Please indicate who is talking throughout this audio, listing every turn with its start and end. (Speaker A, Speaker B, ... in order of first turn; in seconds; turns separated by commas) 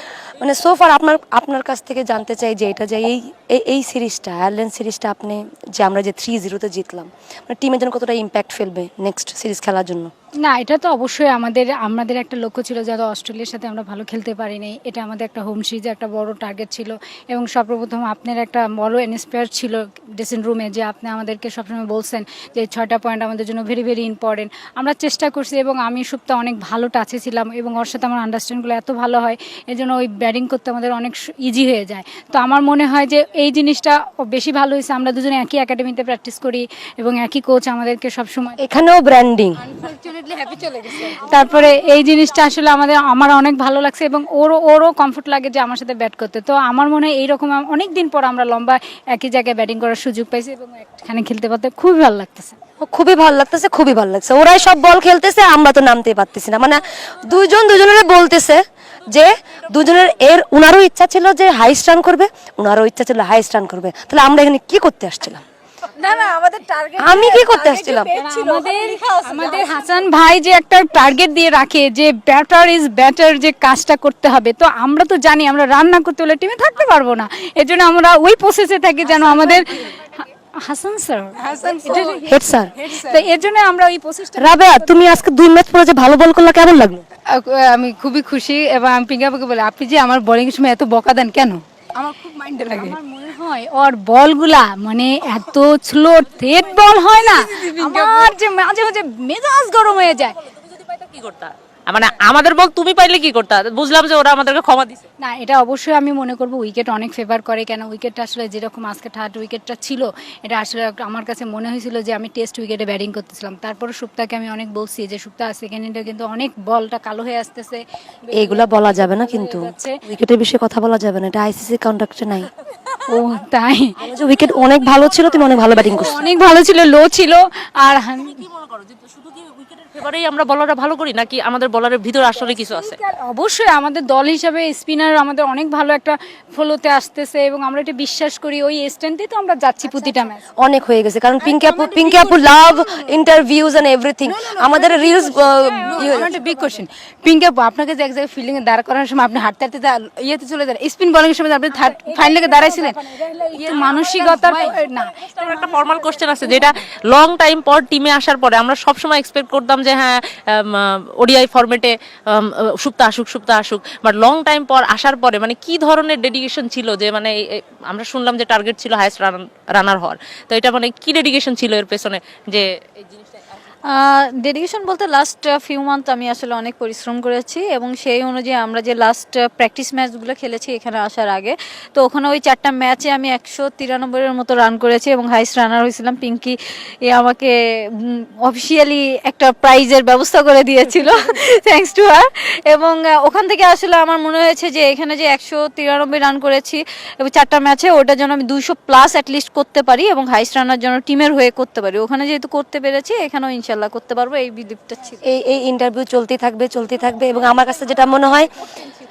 Speaker A: 0.4-10.1, Speaker B: 10.4-38.6, Speaker A: 38.6-39.6, Speaker C: 39.7-41.4, Speaker B: 41.2-52.5, Speaker A: 52.8-65.4, Speaker D: 66.0-70.0, Speaker A: 67.0-68.1, Speaker B: 68.1-85.2, Speaker C: 79.2-79.8, Speaker C: 81.4-83.2, Speaker A: 82.2-82.7, Speaker A: 84.4-87.0, Speaker C: 87.3-93.0, Speaker B: 92.7-100.3, Speaker C: 97.0-98.3, Speaker E: 100.7-105.0, Speaker B: 105.2-120.0, Speaker A: 118.3-122.5, Speaker B: 123.1-124.0, Speaker A: 124.0-126.2, Speaker E: 125.3-125.9, Speaker B: 125.8-128.4, Speaker E: 128.6-132.9, Speaker B: 132.4-140.4, Speaker A: 140.6-146.3, Speaker C: 141.4-143.2, Speaker C: 144.2-153.0, Speaker B: 145.8-146.8, Speaker B: 151.7-155.3, Speaker C: 153.5-154.8, Speaker E: 155.2-172.7, Speaker D: 173.9-205.2, Speaker A: 205.2-208.5